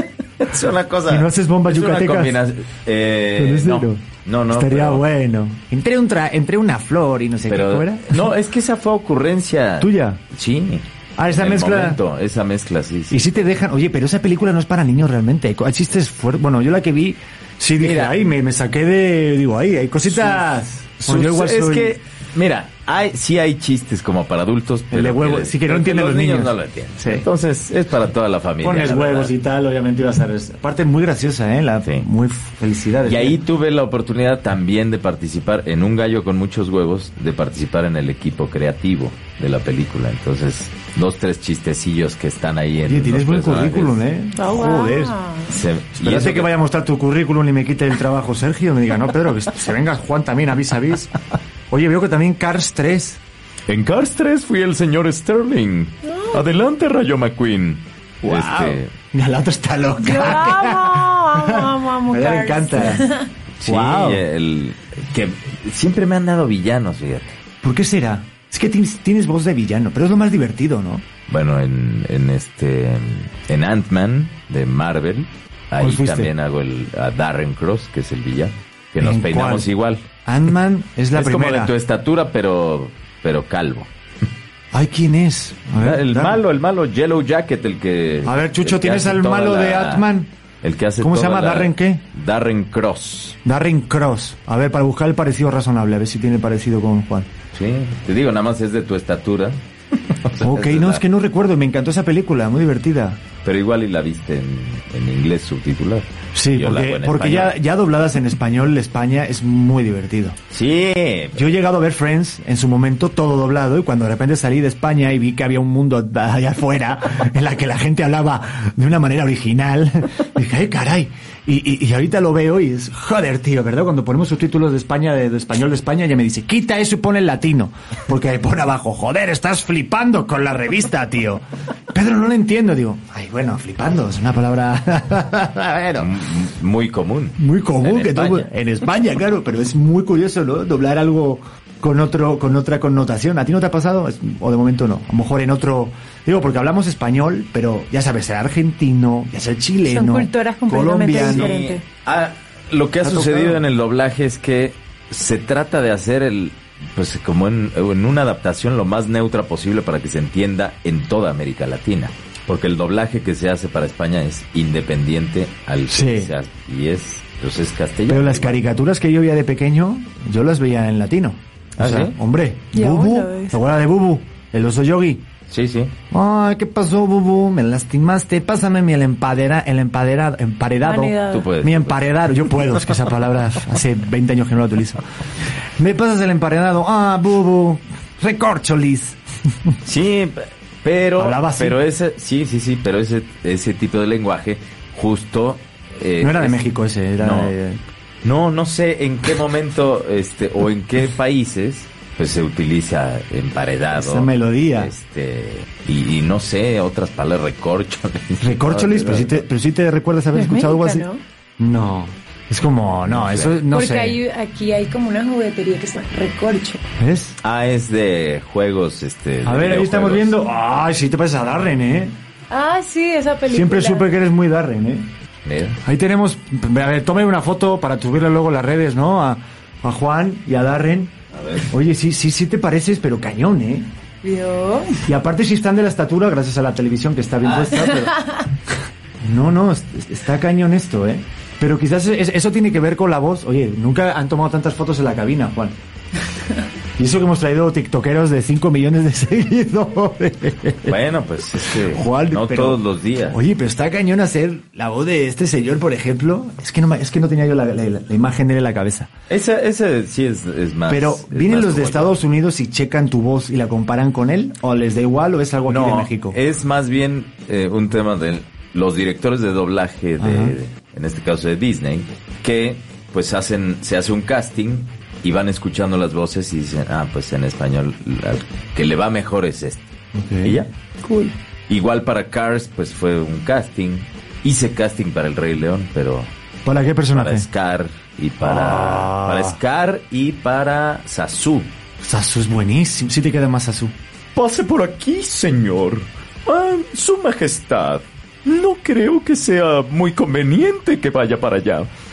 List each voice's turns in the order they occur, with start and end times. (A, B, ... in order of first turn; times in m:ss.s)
0:00.4-0:05.0 A
0:01.1-0:02.4 B
0:03.4-0:08.2 B
0:07.5-0:13.2 A
0:09.8-0:10.2 B
0:11.2-0:12.0 B
0:13.1-0:22.0 B
0:17.8-0:18.2 A
0:20.1-0:20.4 A
0:21.0-0:29.3 A
0:24.9-0:27.3 B
0:28.6-0:33.4 B
0:33.0-0:44.0 A
0:42.8-0:45.2 B
0:44.4-0:45.5 C
0:45.5-0:46.5 A
0:46.0-0:51.1 B
0:51.7-0:53.2 B
0:53.7-0:58.9 A
0:58.2-1:03.1 B
1:00.0-1:03.3 C
1:03.6-1:07.4 A
1:03.6-1:04.2 B
1:07.6-1:11.0 B
1:11.3-1:20.0 A
1:15.8-1:16.3 B
1:19.0-1:19.7 B
1:20.2-1:21.7 B
1:21.1-1:23.9 A
1:24.7-1:26.4 B
1:25.8-1:30.1 A
1:28.3-1:30.3 B
1:30.6-1:33.4 A
1:31.0-1:32.0 B
1:33.4-1:37.3 B
1:37.5-1:41.0 A
1:40.4-1:43.2 B
1:43.4-1:47.6 A
1:46.3-1:50.4 B
1:50.5-1:51.5 A
1:51.4-2:16.1 B
2:16.0-2:18.5 A
2:17.4-2:31.5 B
2:29.9-2:31.8 C
2:31.2-2:48.6 A
2:33.0-2:33.6 B
2:45.9-2:46.3 B
2:48.1-2:55.2 B
2:51.8-2:52.2 A
2:52.7-2:53.6 C
2:55.5-2:55.9 A
2:56.1-3:05.0 B
3:00.8-3:01.5 C
3:01.3-3:02.2 A
3:05.8-3:09.2 B
3:09.8-3:16.6 A
3:11.2-3:11.8 B
3:16.2-3:17.8 B
3:17.2-3:17.5 A
3:18.2-3:29.4 A
3:24.0-3:24.9 B
3:28.4-3:31.1 B
3:30.3-3:31.2 C
3:31.6-3:34.2 B
3:33.1-3:33.6 A
3:33.7-3:36.8 C
3:37.0-3:37.4 B
3:37.4-3:40.4 A
3:39.4-3:42.1 B
3:42.5-3:44.1 C
3:43.5-3:45.1 B
3:45.4-3:45.8 A
3:45.8-3:51.1 B
3:51.3-3:51.7 A
3:51.7-3:53.9 B
3:54.2-3:55.0 C
3:55.0-3:58.2 B
3:57.4-3:57.9 A
3:59.2-4:05.8 B
4:07.0-4:11.0 B
4:10.9-4:13.4 A
4:11.7-4:19.1 B
4:19.3-4:22.2 A
4:20.9-4:26.4 B
4:25.7-4:39.8 A
4:30.2-4:30.6 B
4:40.2-4:40.6 B
4:40.4-4:46.3 A
4:46.6-4:47.5 B
4:47.1-4:51.7 A
4:48.4-4:49.6 B
4:52.0-4:53.9 B
4:54.4-5:01.9 A